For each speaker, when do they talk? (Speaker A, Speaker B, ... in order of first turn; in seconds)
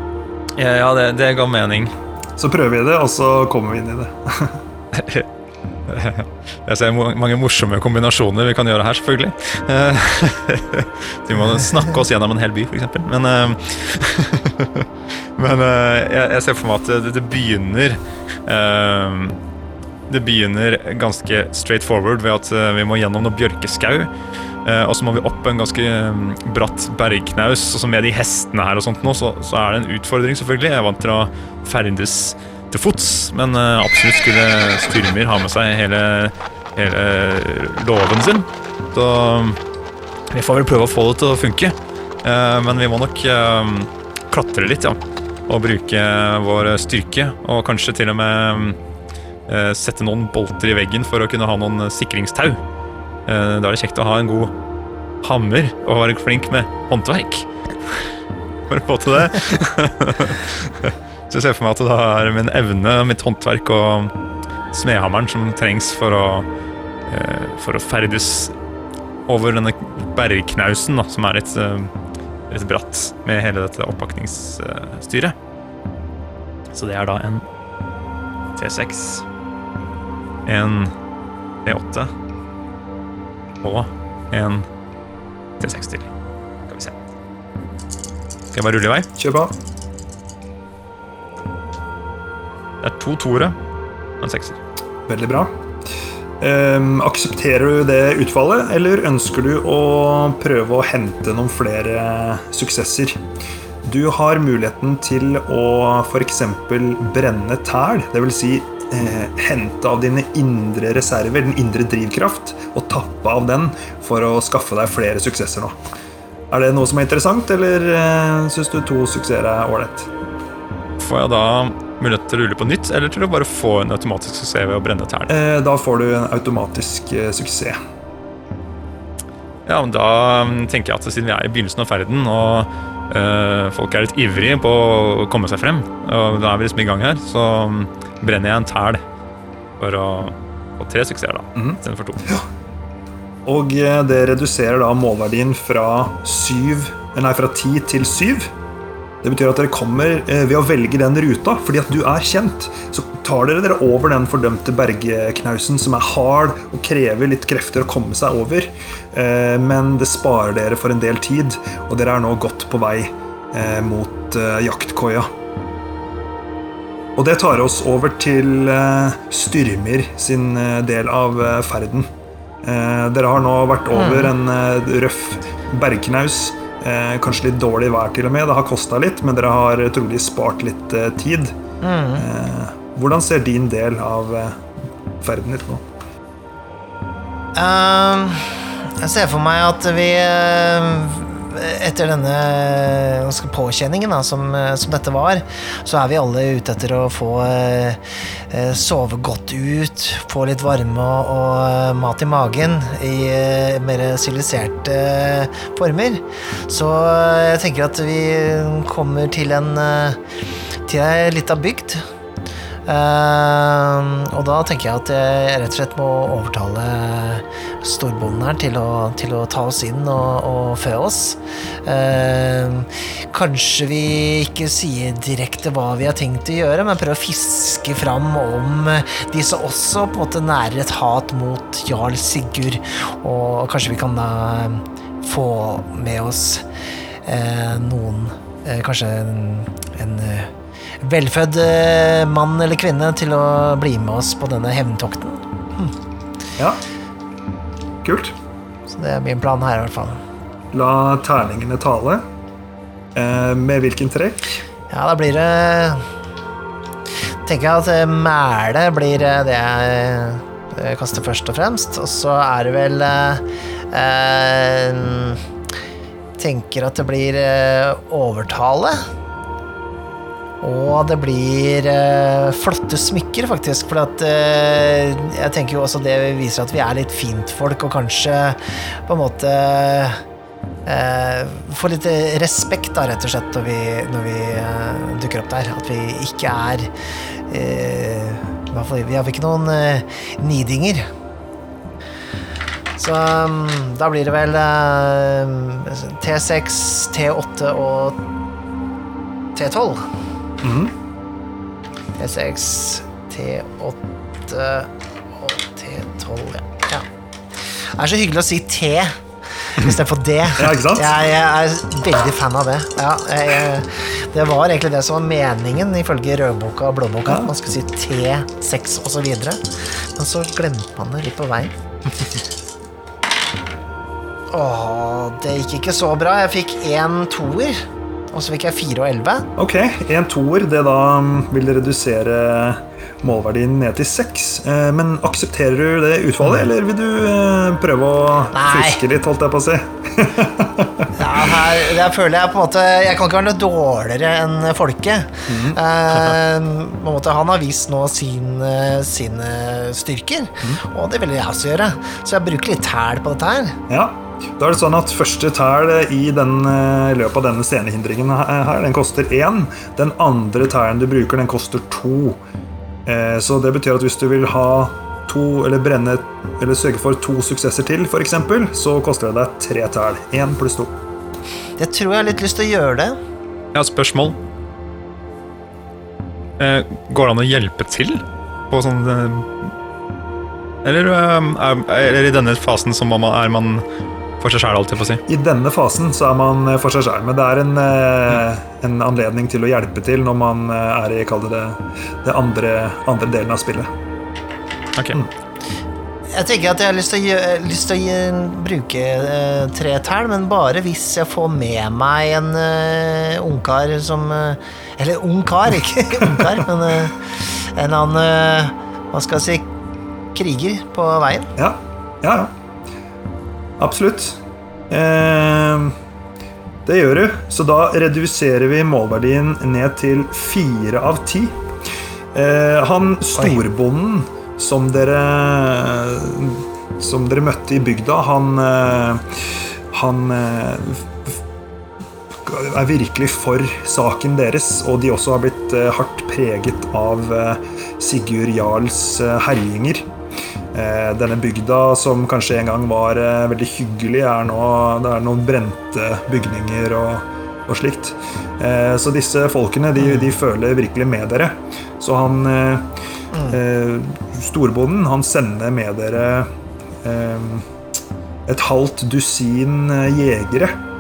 Speaker A: 0.6-1.9, 4.9-5.3, 5.9-19.4, 20.1-24.1, 24.6-39.6, 40.3-48.8, 49.5-52.6, 53.3-54.5, 55.2-57.5, 58.7-64.1, 64.7-66.5, 67.1-68.5, 69.3-71.9, 72.5-75.3, 76.7-77.5, 78.6-79.2, 80.5-80.9, 81.7-82.1, 83.6-84.7, 85.6-86.1, 86.7-87.0, 88.5-89.1, 92.8-93.6, 94.2-94.6, 121.0-125.3, 129.7-139.0, 139.8-142.3, 373.7-374.4, 376.6-379.7, 380.8-383.8, 384.4-385.2, 395.0-395.2
Speaker B: 2.4-4.6, 89.2-89.5, 95.1-95.5, 96.4-103.2, 103.8-115.8, 116.5-120.1, 125.3-127.8, 141.6-142.4, 143.5-148.5, 149.2-165.3, 167.2-172.1, 172.6-181.5, 182.2-184.6, 185.2-185.8, 248.0-248.3, 250.7-252.2, 253.2-254.6, 300.6-300.9, 310.6-311.2, 317.3-317.5, 329.6-341.8, 345.5-346.3, 353.9-362.4, 363.1-370.9, 385.3-393.9, 406.2-406.6, 411.6-412.5, 413.8-415.9, 416.9-421.6, 422.3-431.4, 432.4-440.1, 440.7-452.9, 453.5-456.5, 457.0-457.7, 458.5-460.8
Speaker C: 173.9-174.3, 181.8-182.2, 187.6-210.2, 210.9-212.0, 212.9-236.7, 237.2-245.9, 248.9-250.2, 254.9-256.1, 257.4-265.4, 266.4-269.1, 270.6-280.2, 280.9-286.9, 287.5-291.1, 293.0-298.2, 299.6-300.1, 302.2-307.1, 307.7-321.7, 324.5-329.5, 338.5-339.0, 341.2-353.8, 371.8-373.2, 396.3-409.7, 410.4-411.5, 453.3-453.6